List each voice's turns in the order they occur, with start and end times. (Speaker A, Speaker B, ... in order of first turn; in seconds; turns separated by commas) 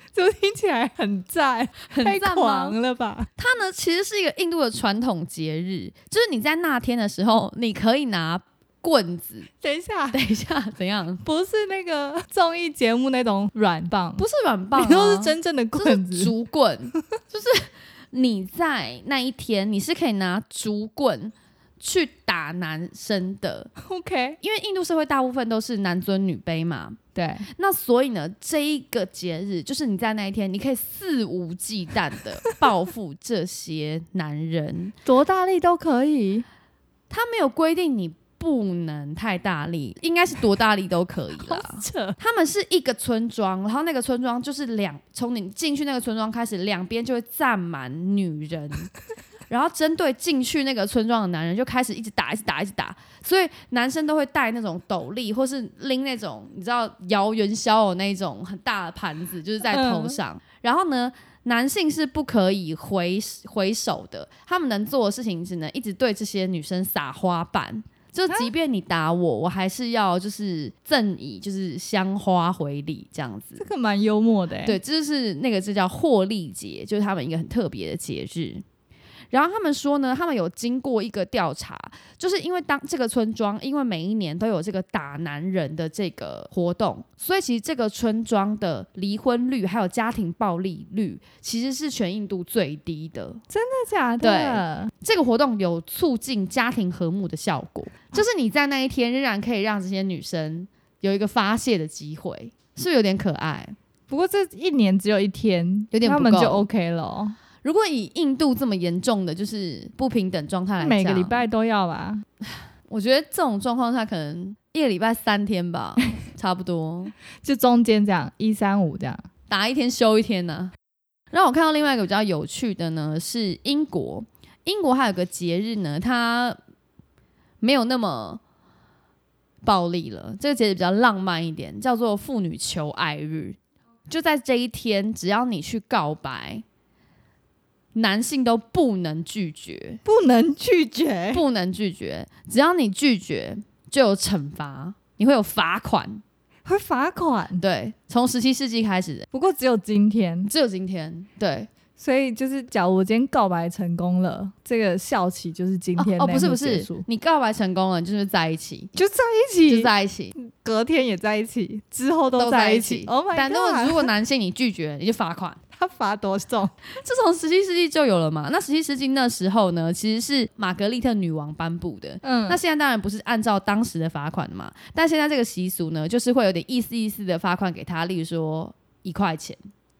Speaker A: 0.1-3.3, Speaker B: 1.9-2.8, Speaker B: 3.4-9.5, Speaker A: 9.6-10.2, Speaker B: 10.1-11.2, Speaker A: 11.2-14.2, Speaker B: 14.2-23.7, Speaker A: 14.8-16.3, Speaker A: 23.8-24.4, Speaker B: 24.4-27.0, Speaker A: 27.1-27.5, Speaker B: 27.5-34.9, Speaker A: 35.0-36.4, Speaker B: 37.1-48.9, Speaker A: 41.4-42.2, Speaker B: 49.5-73.7, Speaker A: 59.7-60.2, Speaker A: 73.6-74.8, Speaker B: 74.6-78.6, Speaker B: 79.3-93.4, Speaker A: 93.5-94.9, Speaker B: 94.2-103.7, Speaker A: 104.1-107.3, Speaker B: 105.9-106.7, Speaker B: 107.6-111.4, Speaker A: 110.8-112.2, Speaker B: 112.9-117.2, Speaker A: 117.4-119.2, Speaker B: 119.5-120.7, Speaker B: 121.3-126.6, Speaker B: 127.6-128.4, Speaker B: 129.6-136.6, Speaker B: 137.9-140.0, Speaker A: 140.0-141.4, Speaker B: 141.3-146.2, Speaker A: 146.6-147.6, Speaker B: 147.6-149.3, Speaker A: 149.3-150.5, Speaker B: 150.4-151.7, Speaker A: 152.0-157.1, Speaker B: 156.0-158.9, Speaker A: 158.9-164.1, Speaker B: 159.7-160.3, Speaker B: 162.3-165.6, Speaker A: 165.7-166.7, Speaker B: 166.8-179.6, Speaker A: 172.2-172.6